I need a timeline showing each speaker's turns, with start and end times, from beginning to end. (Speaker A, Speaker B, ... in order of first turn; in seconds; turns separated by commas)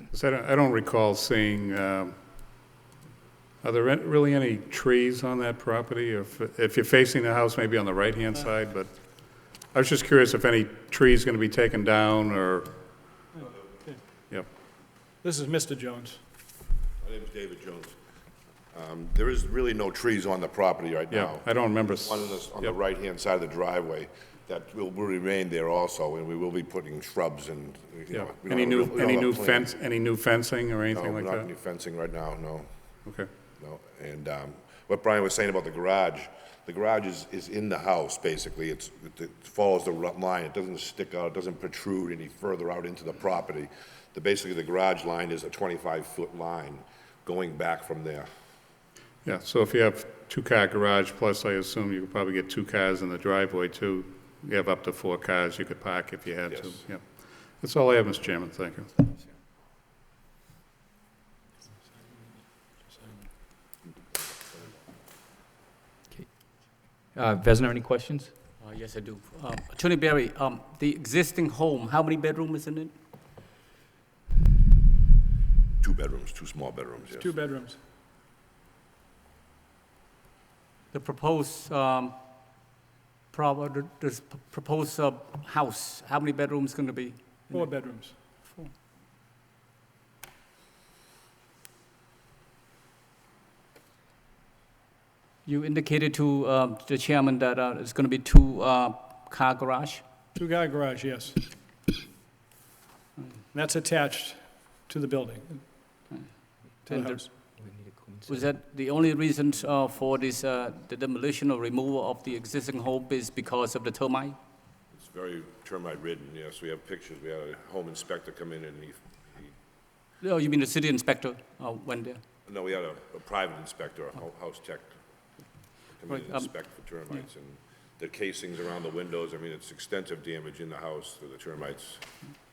Speaker A: 0.1-2.2, Speaker A: 3.6-12.7, Speaker B: 13.3-14.0, Speaker B: 15.2-16.2, Speaker C: 17.0-18.0, Speaker C: 18.7-29.7, Speaker A: 21.1-22.8, Speaker A: 28.1-31.5, Speaker C: 30.9-32.7, Speaker C: 33.6-48.3, Speaker A: 49.2-58.9, Speaker C: 56.5-56.8, Speaker D: 66.2-68.3, Speaker E: 68.6-72.9, Speaker C: 75.8-77.3, Speaker B: 77.2-77.8, Speaker E: 80.9-82.2, Speaker E: 83.3-88.7, Speaker B: 87.5-88.2, Speaker E: 95.5-100.0, Speaker B: 100.3-101.4, Speaker B: 103.5-106.0, Speaker E: 106.1-107.2, Speaker B: 106.8-107.3, Speaker E: 108.2-114.4, Speaker C: 114.9-119.5, Speaker E: 120.2-122.2, Speaker C: 122.5-125.4, Speaker C: 126.0-132.1, Speaker E: 126.1-127.2